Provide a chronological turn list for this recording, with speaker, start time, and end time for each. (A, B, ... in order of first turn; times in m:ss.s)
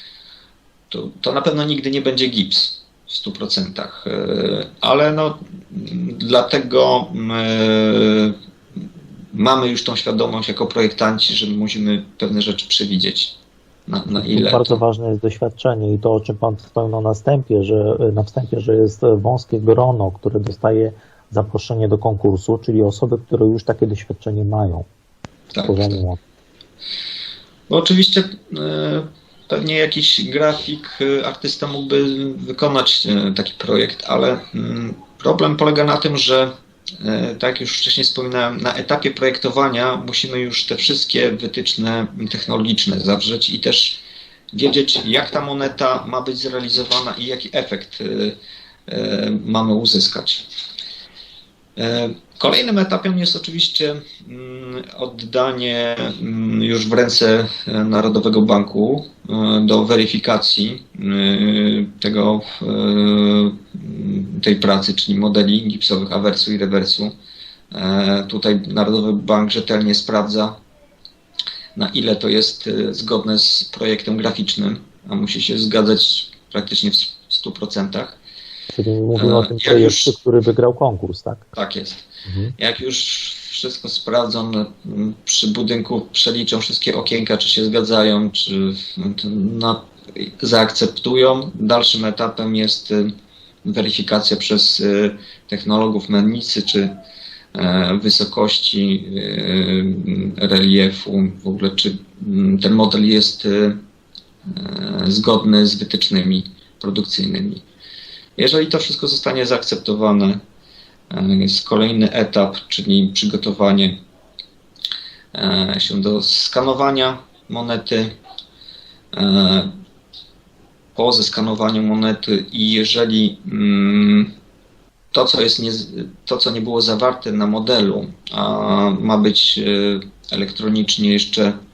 0:00.9-0:08.4 A
0:09.3-0:13.4 A
0:13.9-0:14.8 A
0:14.1-0:24.9 B
0:25.5-0:26.0 A
0:25.6-0:26.2 B
0:27.7-0:36.5 A
0:37.0-0:44.0 A
0:44.5-0:50.5 A
0:51.8-1:07.1 A
1:07.7-1:10.6 A
1:11.8-1:18.2 A
1:18.7-1:21.4 B
1:19.2-1:20.1 A
1:21.5-1:22.1 A
1:22.2-1:22.5 B
1:22.6-1:33.1 A
1:33.6-1:36.9 A
1:37.5-1:43.8 A
1:44.5-1:47.6 A
1:48.4-1:50.4 A
1:51.1-1:54.0 A
1:55.3-1:58.1 A
1:59.1-1:59.7 A
2:01.0-2:04.3 A
2:05.1-2:11.6 A